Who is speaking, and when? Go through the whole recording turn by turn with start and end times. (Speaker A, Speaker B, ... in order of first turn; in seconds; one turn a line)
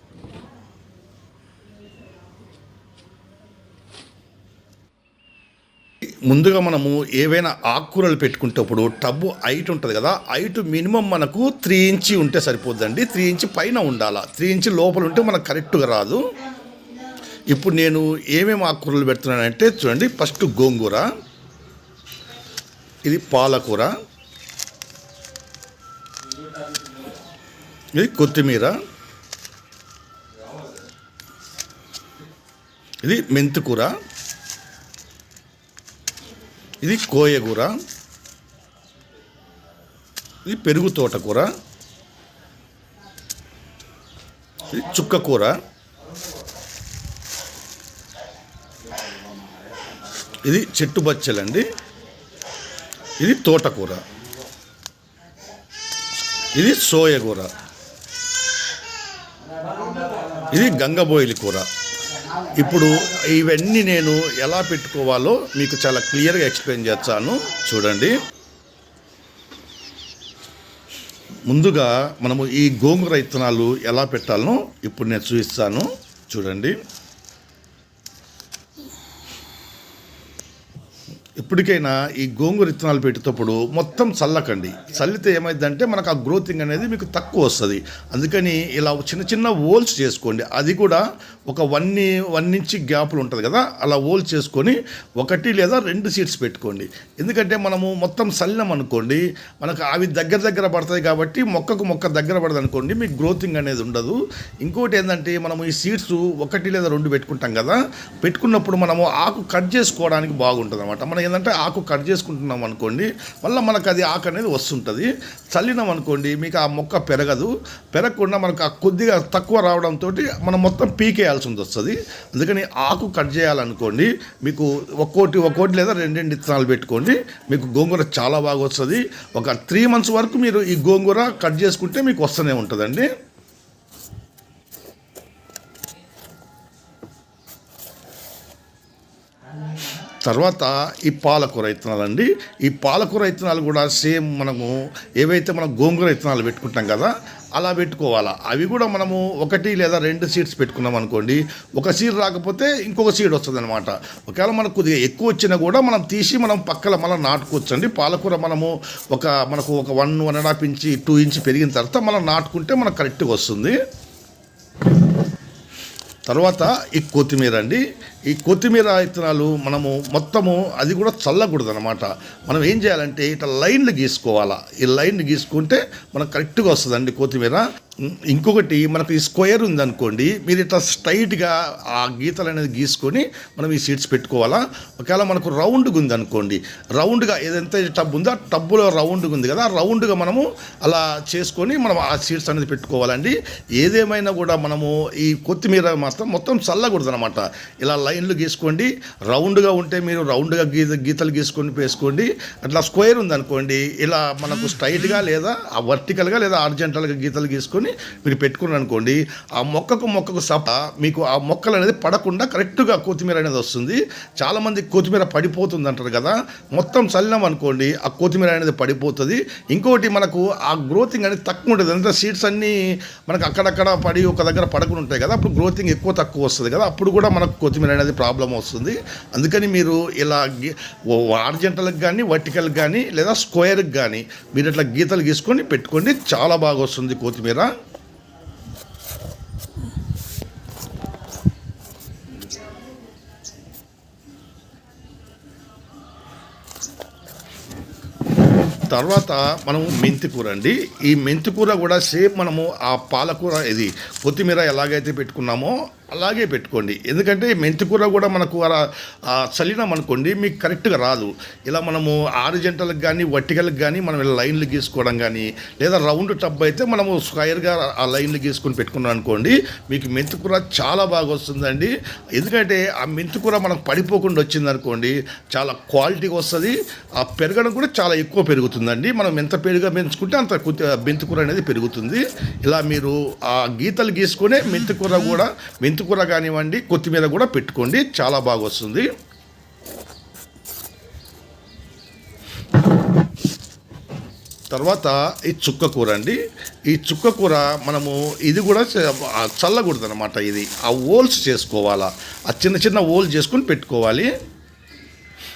Speaker A: 6.3-16.2
Speaker A: 17.5-21.1
Speaker A: 23.1-23.9
Speaker A: 28.0-28.8
Speaker A: 33.0-34.0
Speaker A: 36.8-37.8
Speaker A: 40.5-41.5
Speaker A: 44.7-45.6
Speaker A: 50.4-51.7
Speaker A: 53.2-54.0
Speaker A: 56.5-57.5
Speaker A: 60.5-61.7
Speaker A: 62.5-68.2
Speaker A: 71.5-76.8
Speaker A: 81.4-133.1
Speaker A: 140.2-163.8
Speaker A: 166.3-237.7
Speaker A: 248.9-289.1
Speaker A: 294.7-304.3